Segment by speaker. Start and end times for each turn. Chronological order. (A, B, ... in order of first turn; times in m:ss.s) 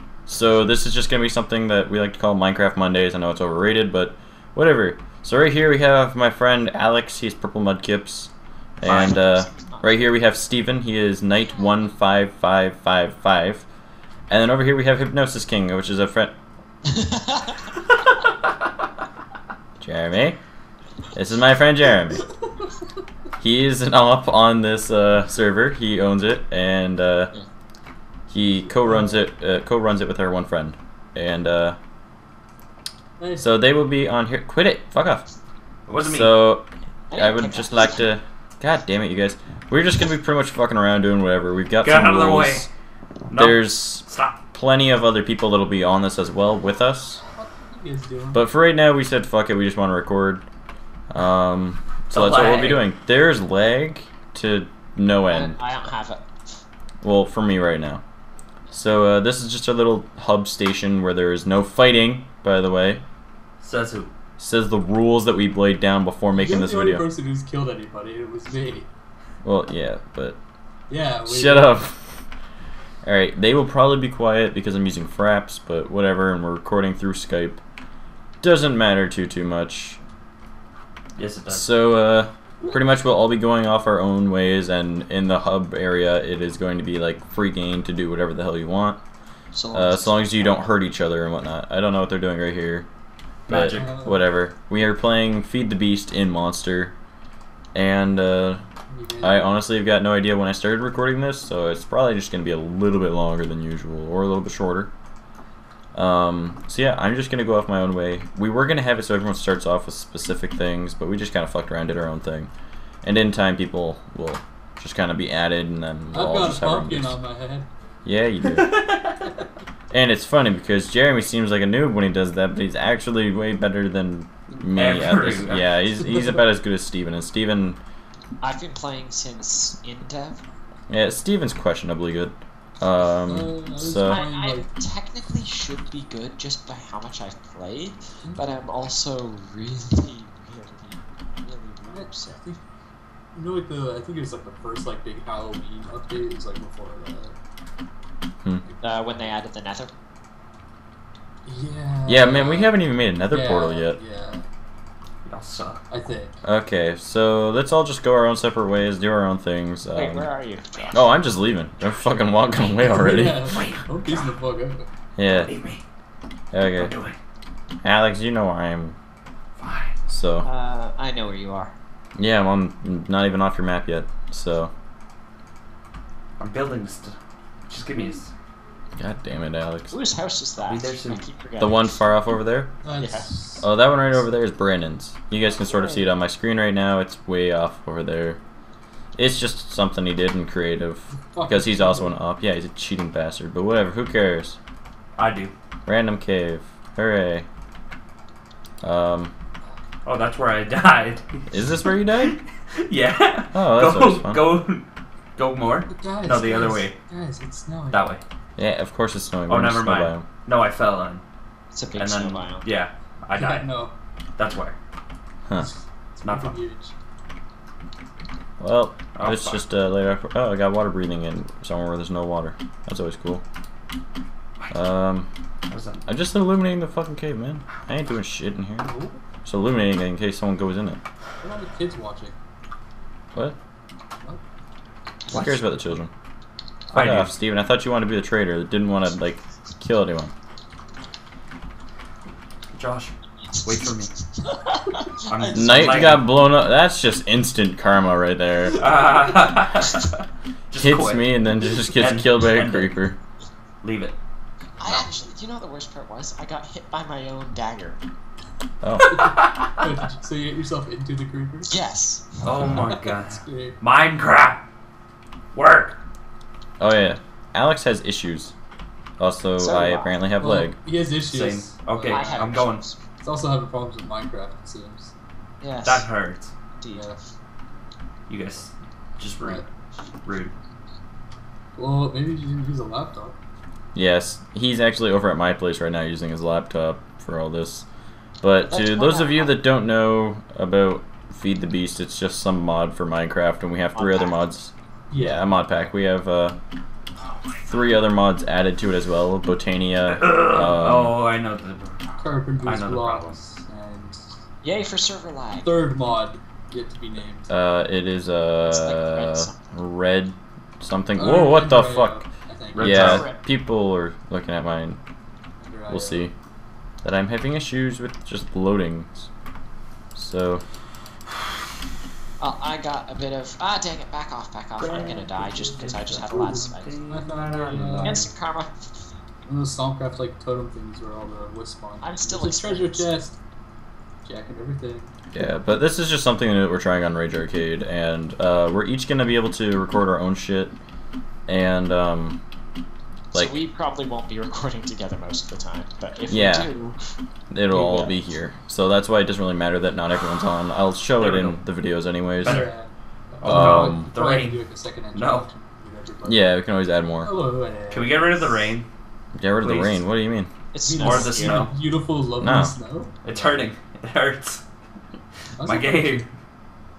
0:00.3-0:13.7 A
0:08.8-0:09.1 B
0:08.8-0:10.0 C
0:14.3-0:16.3 A
0:16.9-0:17.6 C
0:19.8-0:20.4 A
0:21.1-0:22.2 A
0:23.4-0:27.3 A
0:28.3-0:31.8 A
0:28.6-0:29.2 D
0:33.2-0:33.5 D
0:33.4-0:35.2 A
0:35.9-0:36.4 B
0:36.0-0:42.7 A
0:37.1-0:38.1 C
0:41.8-0:42.7 B
0:43.3-0:44.4 B
0:43.3-0:47.2 A
0:47.2-0:48.5 D
0:48.3-0:50.4 A
0:51.1-0:55.6 A
0:52.1-0:52.8 B
0:55.3-0:56.2 C
0:57.0-0:58.0 A
0:58.7-1:03.0 A
1:03.6-1:04.1 B
1:04.4-1:07.0 A
1:06.3-1:08.9 D
1:09.4-1:10.4 A
1:10.9-1:11.8 D
1:11.2-1:12.2 A
1:13.0-1:17.6 A
1:18.4-1:20.0 A
1:21.2-1:21.7 B
1:21.5-1:29.0 A
1:29.5-1:30.7 C
1:29.7-1:32.9 A
1:33.5-1:33.9 B
1:33.5-1:36.9 A
1:33.7-1:34.2 D
1:37.7-1:38.6 A
1:38.9-1:39.5 D
1:39.2-1:44.9 A
1:45.9-1:52.5 A
1:53.0-1:57.2 A
1:56.1-1:57.7 D
1:58.0-1:58.7 A
1:58.5-1:59.2 B
1:59.9-2:07.8 A
2:04.7-2:05.8 B
2:06.1-2:06.4 D
2:08.4-2:10.4 C
2:10.9-2:14.2 A
2:13.3-2:14.7 D
2:14.0-2:22.4 C
2:21.9-2:22.6 D
2:23.3-2:27.4 D
2:28.6-2:29.3 D
2:28.8-2:29.9 C
2:31.4-2:34.4 D
2:32.0-2:34.0 A
2:35.2-2:35.8 B
2:35.9-2:36.4 D
2:36.4-2:40.3 A
2:39.9-2:41.2 C
2:40.9-2:43.5 A
2:42.7-2:44.8 D
2:42.8-2:44.3 B
2:45.2-2:45.5 A
2:45.2-2:45.8 B
2:46.5-2:46.9 A
2:46.8-2:47.2 B
2:47.8-2:49.0 A
2:49.6-2:50.0 B
2:50.1-2:50.5 A
2:50.4-2:51.7 C
2:52.2-2:54.7 A
2:56.4-2:57.1 B
2:57.7-2:58.3 B
2:59.0-3:00.0 A
2:59.9-3:02.0 C
3:00.6-3:01.2 B
3:01.6-3:02.7 A
3:02.8-3:03.8 D
3:03.0-3:03.3 C
3:03.6-3:08.4 A
3:05.4-3:06.1 C
3:09.2-3:14.6 A
3:11.2-3:12.2 D
3:15.2-3:15.5 B
3:15.8-3:17.5 A
3:18.8-3:19.3 A
3:20.0-3:27.0 B
3:21.5-3:22.4 A
3:23.5-3:24.4 A
3:25.9-3:28.0 D
3:27.9-3:28.2 B
3:28.6-3:30.2 A
3:29.5-3:31.2 B
3:31.7-3:32.7 C
3:31.9-3:33.7 B
3:33.3-3:33.9 D
3:34.4-3:34.8 B
3:35.6-3:36.9 D
3:36.2-3:36.6 B
3:38.6-3:43.4 A
3:39.1-3:39.6 B
3:44.7-3:45.3 A
3:45.7-3:46.0 B
3:46.1-3:48.9 A
3:48.8-3:49.2 D
3:49.4-3:51.0 A
3:51.4-3:52.3 D
3:55.3-3:56.1 A
3:55.3-3:55.6 B
3:56.9-3:57.3 B
3:56.9-4:00.3 A
4:02.7-4:04.1 B
4:03.4-4:05.2 C
4:05.2-4:06.3 B
4:05.5-4:08.9 A
4:05.5-4:06.2 D
4:08.7-4:11.2 B
4:10.8-4:13.2 A
4:11.9-4:12.9 B
4:13.8-4:14.2 B
4:14.8-4:18.0 C
4:18.8-4:19.1 A
4:19.0-4:19.8 B
4:19.1-4:21.7 D
4:21.7-4:22.6 C
4:22.4-4:24.6 B
4:22.6-4:23.8 D
4:25.5-4:26.0 B
4:26.8-4:28.5 A
4:29.2-4:30.8 A
4:29.6-4:30.1 C
4:30.4-4:32.5 D
4:31.3-4:32.8 B
4:32.1-4:33.0 C
4:33.2-4:35.1 D
4:35.6-4:36.1 C
4:35.8-4:36.5 B
4:36.7-4:37.1 C
4:36.9-4:37.2 D
4:38.3-4:39.6 B
4:39.4-4:39.6 D
4:40.2-4:40.5 B
4:41.8-4:43.4 D
4:43.9-4:47.9 A
4:48.4-4:56.6 A
4:48.7-4:49.6 C
4:53.9-4:54.4 C
4:55.1-4:55.5 D
4:57.6-5:01.1 A
5:00.1-5:02.0 B
5:02.2-5:04.4 D
5:02.6-5:03.4 B
5:04.6-5:05.7 C
5:05.6-5:07.5 D
5:07.5-5:15.0 A
5:08.6-5:09.6 C
5:11.1-5:13.0 D
5:12.7-5:13.3 B
5:12.9-5:13.4 C
5:15.6-5:16.3 D
5:15.9-5:16.3 A
5:17.0-5:19.3 A
5:20.1-5:20.6 A
5:22.4-5:26.9 C
5:24.8-5:28.3 B
5:27.1-5:28.2 D
5:28.0-5:28.9 C
5:29.4-5:33.4 D
5:32.0-5:33.1 C
5:34.2-5:35.1 D
5:35.3-5:40.8 A
5:41.5-5:42.4 A
5:43.3-5:43.6 A
5:43.3-5:47.0 C
5:46.3-5:46.7 A
5:47.5-5:52.7 A
5:47.7-5:48.1 D
5:51.2-5:51.6 B
5:52.4-5:52.7 B
5:52.4-5:56.6 D
5:53.4-5:55.5 B
5:53.4-5:54.1 A
5:56.2-5:57.3 A
5:57.2-5:58.5 D
5:57.9-5:58.9 B
5:59.4-6:00.5 A
5:59.6-6:00.0 B
6:00.7-6:01.7 C
6:00.8-6:03.6 D
6:01.0-6:01.7 B
6:02.4-6:02.8 A
6:03.2-6:04.6 B
6:05.6-6:06.2 D
6:05.6-6:06.3 B